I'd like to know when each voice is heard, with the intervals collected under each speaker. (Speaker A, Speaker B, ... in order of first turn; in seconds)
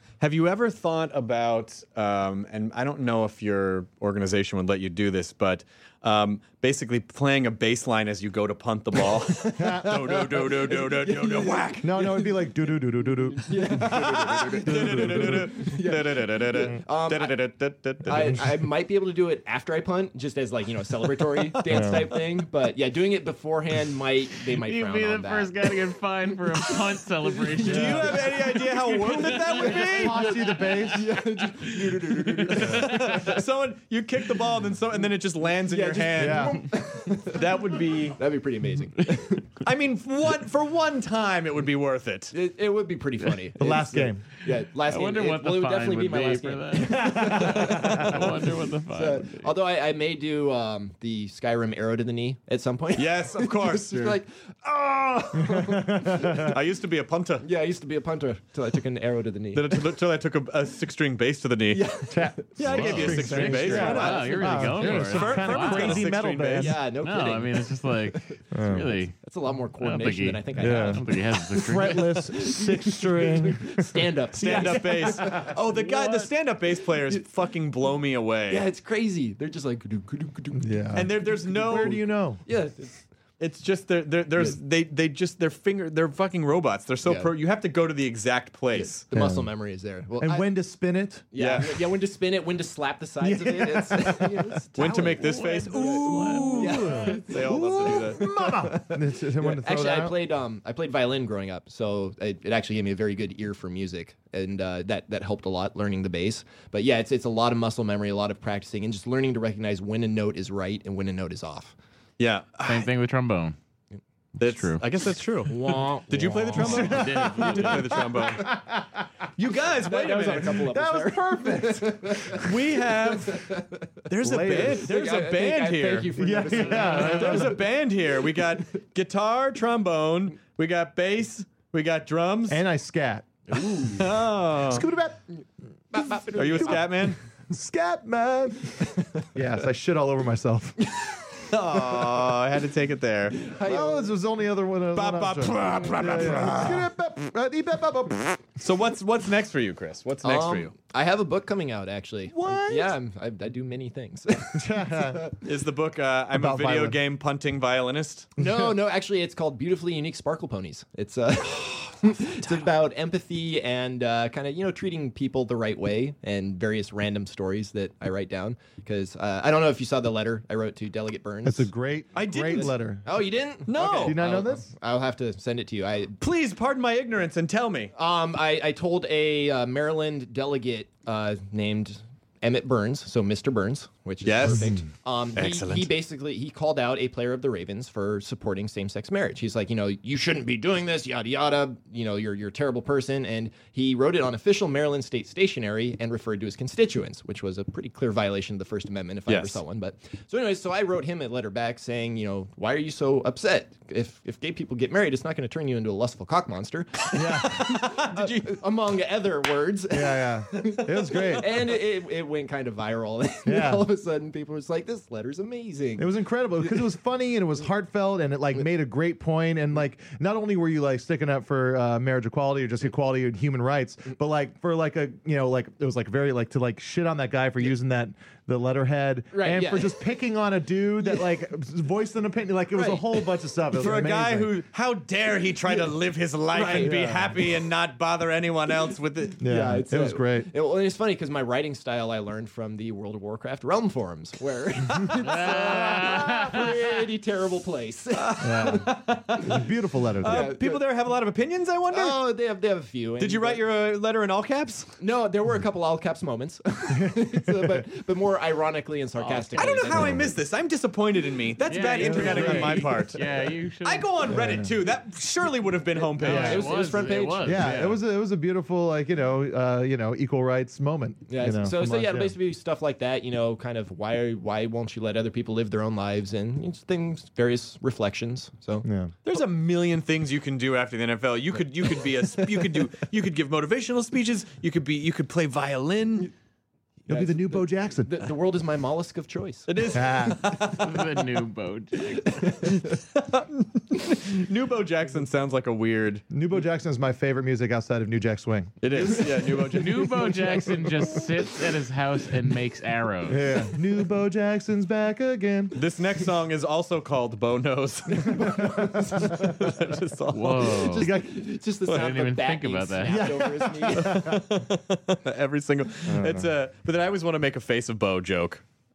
Speaker A: 0.2-11.9, 13.7-18.4, 27.6-30.3, 31.9-36.6, 37.2-38.2, 39.6-42.3, 46.8-48.1, 53.0-54.1, 56.4-57.5, 59.5-61.8, 62.6-66.8, 74.3-78.7, 80.9-82.0, 83.4-89.0, 91.3-91.8, 94.8-98.7, 112.2-112.9, 114.4-118.5, 119.4-120.7, 122.3-123.5, 124.1-132.6, 133.9-134.8, 136.3-137.2, 141.5-143.4, 144.9-146.8, 148.6-150.7, 155.4-158.3, 172.1-172.7, 173.7-174.2, 176.2-177.9, 184.2-184.7, 185.3-185.9, 199.3-199.6, 207.2-208.6, 233.8-239.4, 248.1-249.6, 250.2-252.2, 253.2-254.9, 259.5-263.2, 263.8-267.0, 279.2-286.3, 289.7-290.9, 293.1-296.2, 298.8-300.8, 305.7-311.0, 313.9-318.6
Speaker B: 9.5-12.5, 13.2-17.4, 18.0-25.8, 26.3-33.4, 35.4-39.5, 42.3-56.5, 57.4-59.8, 61.7-65.4, 66.5-68.4, 69.2-76.3, 78.5-83.0, 87.0-87.3, 88.7-90.5, 91.3-111.7, 115.5-118.5, 119.8-122.5, 123.0-123.8, 124.4-127.7, 133.5-134.1, 135.9-137.1, 141.7-142.3, 143.4-144.1, 145.8-146.3, 150.2-155.4, 158.4-171.7, 172.5-176.2, 177.9-216.9, 229.3-230.0, 232.7-233.2, 236.5-237.1, 239.4-248.9, 250.2-250.8, 251.9-253.6, 255.0-260.4, 261.9-263.0, 265.9-267.9, 271.3-278.9, 287.1-290.8, 292.1-292.8, 308.2-309.5, 310.8-314.4
Speaker C: 9.6-9.9, 11.8-14.0, 14.6-15.5, 18.1-18.4, 21.7-22.1, 29.5-31.1, 32.6-32.9, 36.1-36.7, 43.6-44.2, 55.4-56.5, 62.1-66.8, 68.5-69.0, 70.6-74.6, 80.6-82.4, 89.1-89.5, 90.2-91.2, 93.2-94.5, 96.7-100.2, 118.2-118.8, 120.5-122.5, 124.2-124.9, 126.2-127.6, 132.5-133.3, 134.7-135.2, 137.5-140.8, 143.6-148.4, 152.3-152.9, 154.6-155.2, 156.3-157.0, 158.4-158.7, 171.4-173.2, 173.8-174.7, 207.1-207.6, 209.9-211.5, 213.4-213.9, 216.0-234.5, 236.7-237.3, 239.4-240.5, 248.4-250.5, 257.0-257.8, 260.0-260.3, 262.0-262.9, 264.3-264.7, 266.2-266.6, 267.4-272.3, 278.8-279.1, 287.1-288.3, 289.9-290.4, 296.3-298.8, 300.6-301.1, 303.3-305.8, 308.3-309.4, 311.0-311.4, 313.0-314.4, 316.1-316.5
Speaker D: 24.5-28.3, 29.0-29.6, 44.9-49.5, 62.6-66.1, 66.9-69.1, 69.8-72.2, 95.2-97.1, 112.7-113.5, 114.4-114.8, 116.5-117.9, 245.2-246.8, 259.3-259.8, 261.6-264.3, 266.2-267.9, 290.7-292.2, 299.7-303.4, 310.3-311.1, 311.9-313.4